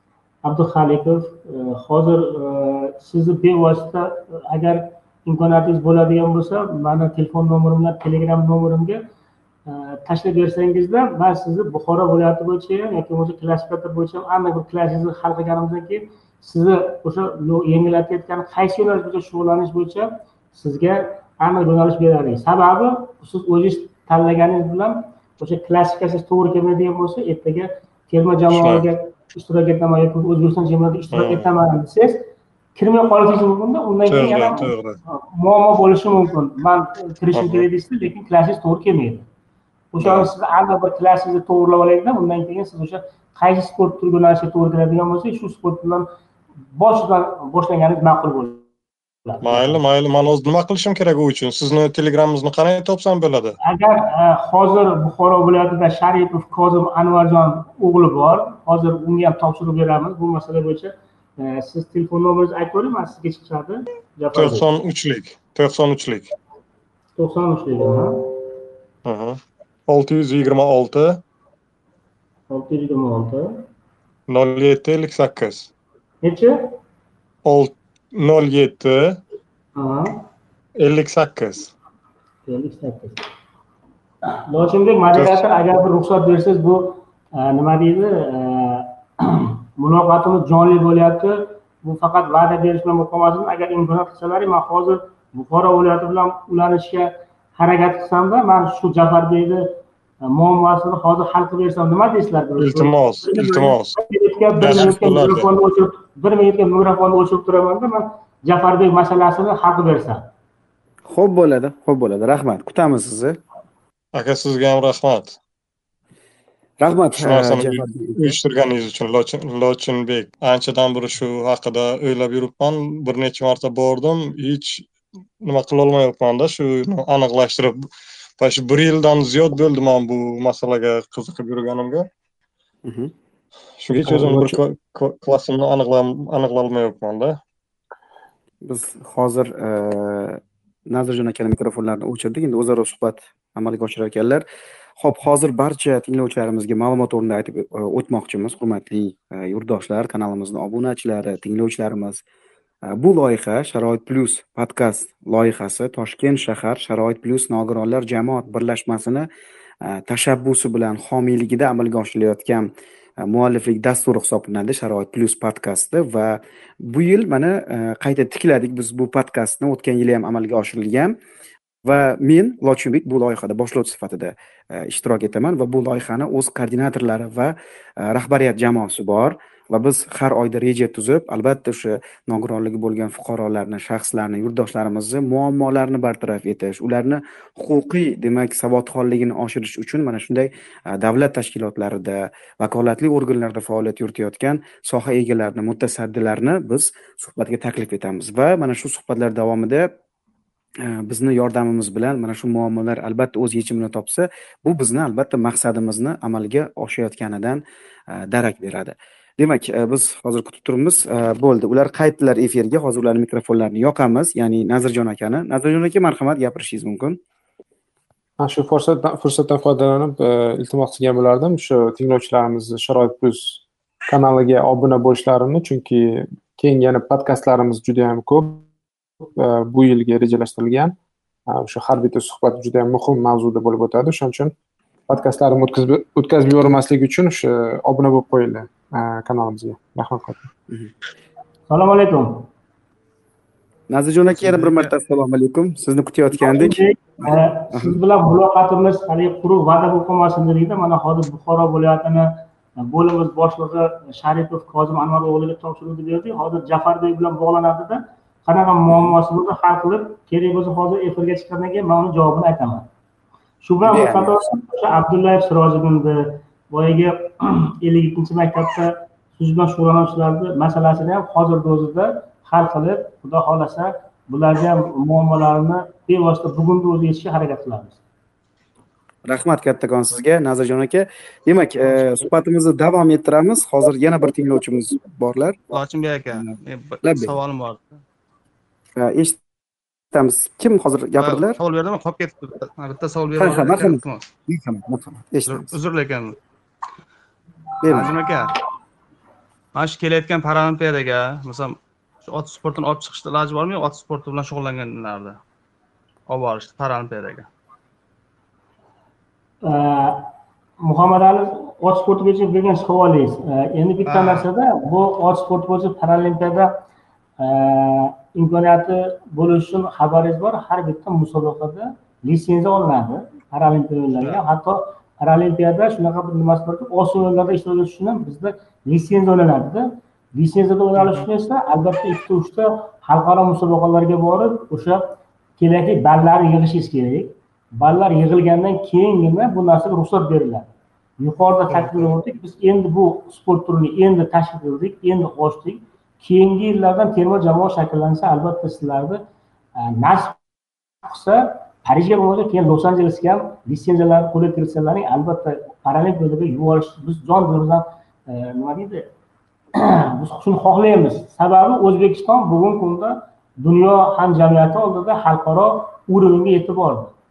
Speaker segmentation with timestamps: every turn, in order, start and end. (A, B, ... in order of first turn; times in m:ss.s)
0:00.4-0:09.0 A
0:09.7-0:39.2 A
0:28.5-0:28.9 B
0:31.1-0:31.5 B
0:34.1-0:35.0 B
0:37.3-0:37.6 B
0:39.9-0:46.1 A
0:40.0-0:40.3 B
0:46.7-0:48.6 A
0:49.2-0:49.8 A
0:49.4-0:53.6 B
0:53.6-1:04.7 A
1:04.3-1:06.3 B
1:07.2-1:08.2 A
1:09.0-1:11.2 B
1:12.5-1:13.5 A
1:14.3-1:15.7 B
1:16.2-1:16.7 A
1:17.4-1:19.2 B
1:19.8-1:20.2 A
1:20.8-1:21.7 B
1:22.5-1:23.2 A
1:24.5-1:39.7 A
1:25.1-1:25.4 B
1:40.2-1:50.3 A
1:42.6-1:44.0 B
1:44.6-1:45.5 B
1:51.1-1:53.4 C
1:54.1-1:55.4 B
1:56.8-1:58.3 C
1:57.2-2:04.9 B
2:05.4-2:07.8 B
2:08.4-2:12.0 B
2:12.8-2:13.1 C
2:13.8-2:17.4 B
2:14.0-2:14.6 C
2:18.6-2:24.4 C
2:25.0-2:32.2 C
2:32.9-2:39.3 C
2:39.8-2:42.7 C
2:43.2-2:51.2 C
2:51.8-3:19.9 C
3:20.8-3:37.2 C
3:38.4-3:48.7 D
3:49.4-3:51.0 D
3:51.5-3:54.5 D
3:55.1-4:00.4 D
4:01.7-4:02.5 A
4:03.9-4:08.0 C
4:06.4-4:22.9 A
4:18.9-4:19.2 C
4:23.6-4:38.0 A
4:23.8-4:24.5 C
4:39.2-4:45.6 C
4:45.7-4:48.0 E
4:46.4-4:47.4 C
4:49.0-4:49.4 C
4:50.1-4:51.6 C
4:51.2-4:54.3 E
4:53.4-4:55.8 C
4:55.5-4:56.4 E
4:57.8-4:58.2 C
4:57.8-4:58.6 E
4:59.7-5:05.4 E
5:06.3-5:07.5 E
5:09.6-5:10.3 A
5:10.8-5:16.7 A
5:14.1-5:14.4 E
5:17.4-5:35.0 A
5:35.6-5:40.7 A
5:41.2-5:49.2 A
5:49.8-5:50.4 A
5:51.0-5:59.1 A
5:59.8-6:07.1 A